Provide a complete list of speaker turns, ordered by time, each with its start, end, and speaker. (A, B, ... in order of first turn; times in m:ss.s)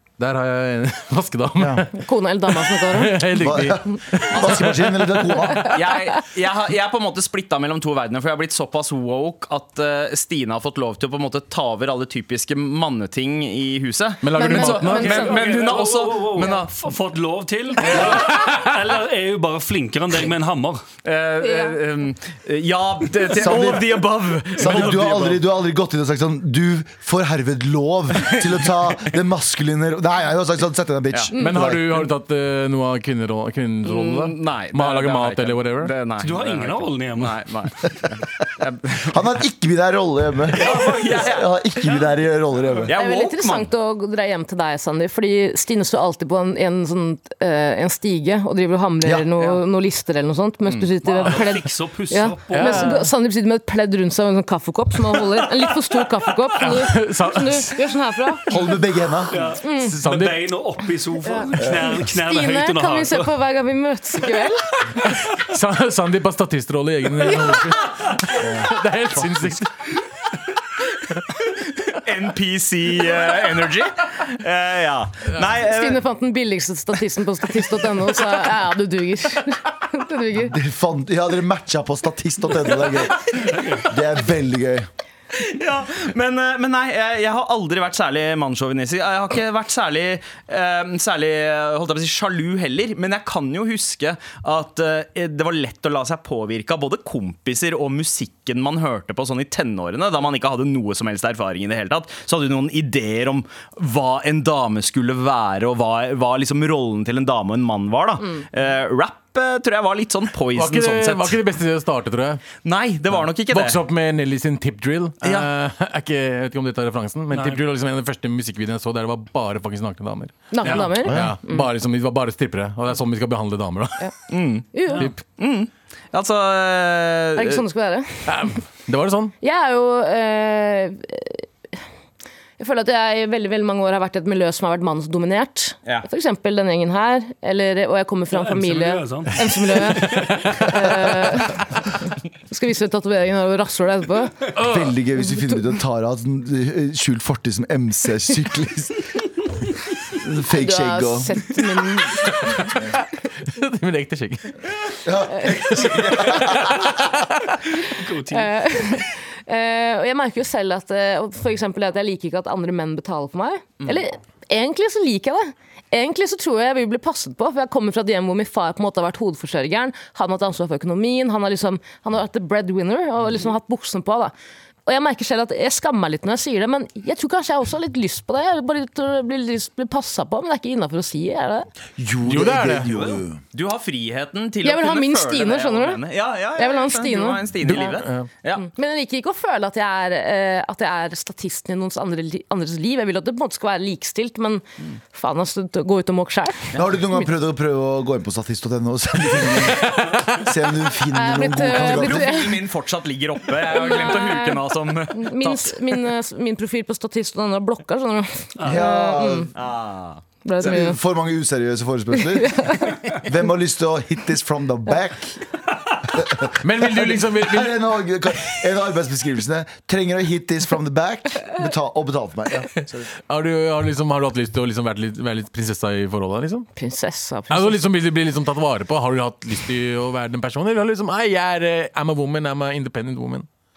0:00.2-0:01.9 A
0:01.6-0:01.8 B
0:01.9-0:03.4 C
0:02.6-0:05.4 A
0:03.4-0:05.7 B
0:05.6-0:16.7 D
0:14.2-0:15.8 A
0:14.3-0:15.5 C
0:15.0-0:20.8 E
0:18.0-0:18.6 A
0:21.0-0:25.4 D
0:21.4-0:21.8 C
0:23.3-0:32.0 B
0:31.4-0:35.9 A
0:33.8-0:39.2 D
0:36.2-0:37.4 E
0:39.0-0:42.9 B
0:40.5-0:41.9 D
0:42.8-0:43.7 D
0:42.9-0:58.4 C
0:51.0-0:53.0 E
0:52.5-0:53.1 A
0:56.6-0:57.8 A
0:58.5-0:59.5 B
0:59.3-1:03.3 E
0:59.6-0:59.9 C
0:59.8-1:00.4 A
1:01.2-1:04.7 C
1:01.6-1:02.0 B
1:05.1-1:09.7 A
1:08.4-1:09.5 B
1:11.9-1:16.0 D
1:15.6-1:20.5 C
1:20.4-1:24.9 B
1:23.4-1:23.8 E
1:25.3-1:51.4 D
1:50.5-1:52.4 A
1:52.6-1:53.8 D
1:53.2-2:04.1 A
1:55.2-1:55.5 D
1:57.3-1:57.6 E
2:00.5-2:01.7 C
2:00.6-2:00.9 E
2:01.0-2:01.4 B
2:04.3-2:04.7 D
2:04.7-2:05.1 C
2:05.4-2:07.6 D
2:07.4-2:08.4 C
2:08.2-2:09.3 A
2:09.4-2:11.4 C
2:12.6-2:24.4 C
2:18.3-2:20.7 E
2:24.6-2:24.9 A
2:24.6-2:29.0 B
2:30.1-2:31.5 B
2:30.6-2:32.7 C
2:33.5-2:34.6 A
2:35.0-2:36.9 B
2:36.3-2:37.3 A
2:37.8-2:38.5 E
2:38.3-2:54.3 C
2:54.8-3:01.7 C
3:02.0-3:03.4 B
3:02.2-3:03.0 A
3:03.5-3:08.7 D
3:04.6-3:06.0 C
3:06.6-3:07.4 C
3:07.6-3:08.3 A
3:08.6-3:16.7 C
3:16.7-3:22.4 B
3:21.1-3:22.6 C
3:21.8-3:25.8 D
3:23.6-3:29.5 C
3:28.6-3:29.5 B
3:29.5-3:30.2 D
3:30.4-3:31.0 C
3:30.6-3:35.4 B
3:32.2-3:33.0 C
3:36.1-3:42.8 B
3:36.6-3:37.8 A
3:43.3-3:46.7 A
3:46.8-3:47.8 C
3:47.5-3:53.5 A